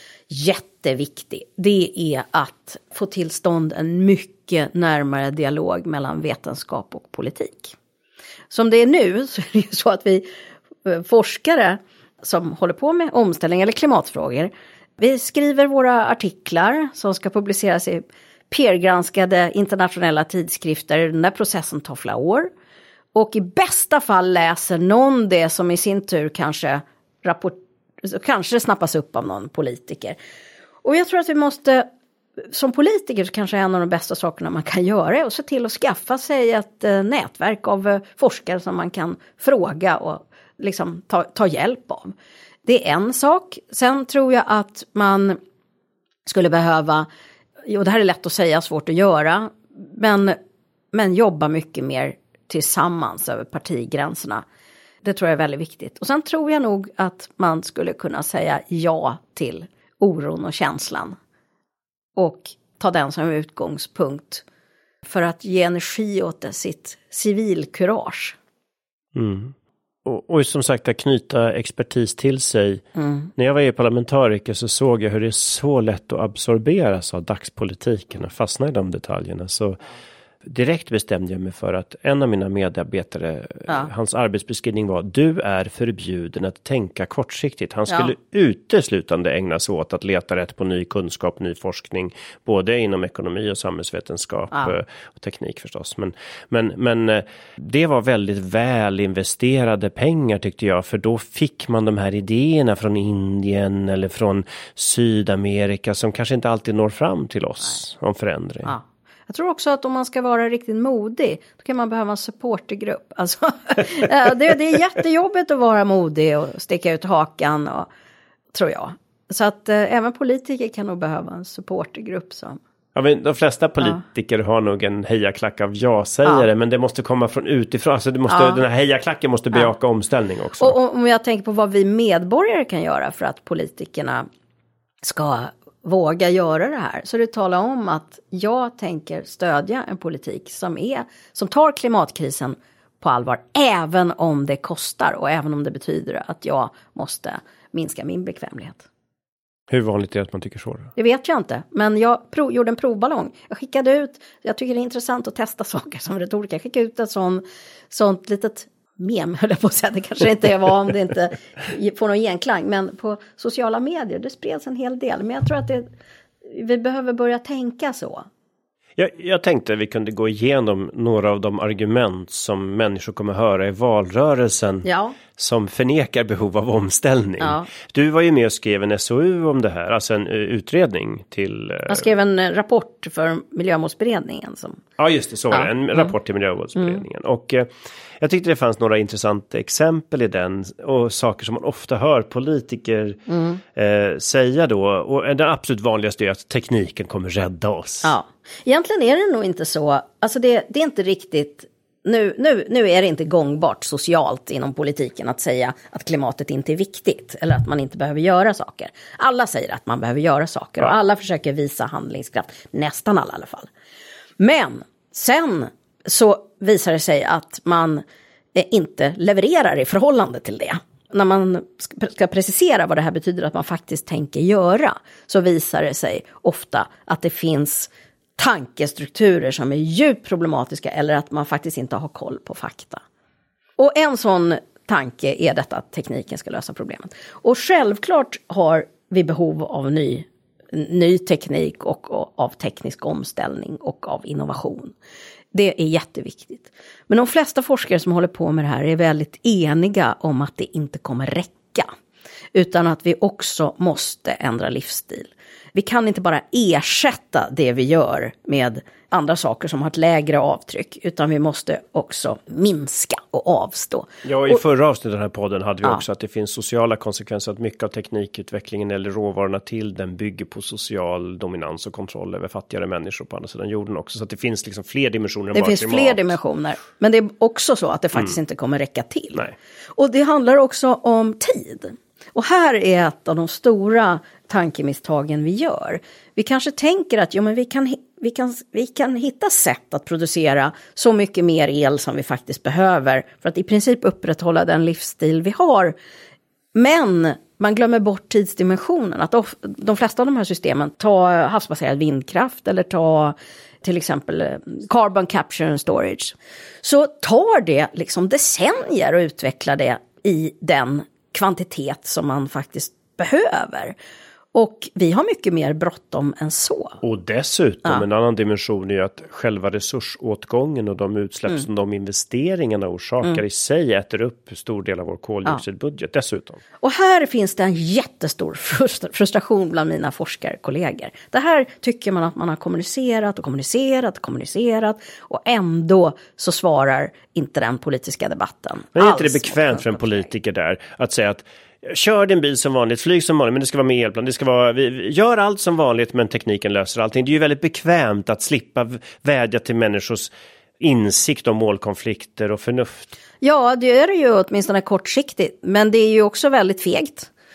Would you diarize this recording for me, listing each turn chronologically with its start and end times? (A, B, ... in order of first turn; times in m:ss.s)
0:00.3-0:07.8 A
0:08.5-0:10.3 A
0:10.8-0:22.5 A
0:23.2-0:30.2 A
0:30.8-0:31.9 A
0:32.5-0:42.1 A
0:42.6-0:45.4 A
0:46.3-0:47.1 A
0:47.7-0:50.4 A
0:50.9-0:54.4 A
0:55.0-1:01.2 A
1:02.2-1:04.4 A
1:05.0-1:08.4 A
1:09.2-1:12.8 B
1:13.0-1:13.3 A
1:13.4-1:19.8 B
1:20.4-1:48.7 B
1:48.6-1:57.9 A
1:58.5-2:02.6 A
2:03.0-2:10.8 B
2:08.3-2:08.6 A
2:10.6-2:14.3 A
2:15.0-2:28.8 A
2:29.7-2:30.9 B
2:31.0-2:45.9 A
2:46.5-2:48.3 A
2:49.0-3:02.1 B
2:54.8-2:55.2 A
2:57.4-2:57.7 A
3:01.9-3:04.8 A
3:05.0-3:18.1 B
3:05.5-3:06.1 A
3:13.3-3:13.6 A
3:18.0-3:33.7 A
3:34.4-3:38.0 A
3:38.6-3:53.0 A
3:53.8-4:04.9 A
4:05.5-4:11.9 A
4:12.5-4:24.6 A
4:24.2-4:36.3 B
4:35.6-4:39.4 A
4:40.0-4:56.0 A
4:56.8-5:14.0 A
5:14.6-5:17.0 A
5:17.0-5:26.6 B
5:26.8-5:40.2 A
5:39.0-5:53.2 B
5:53.4-5:57.3 A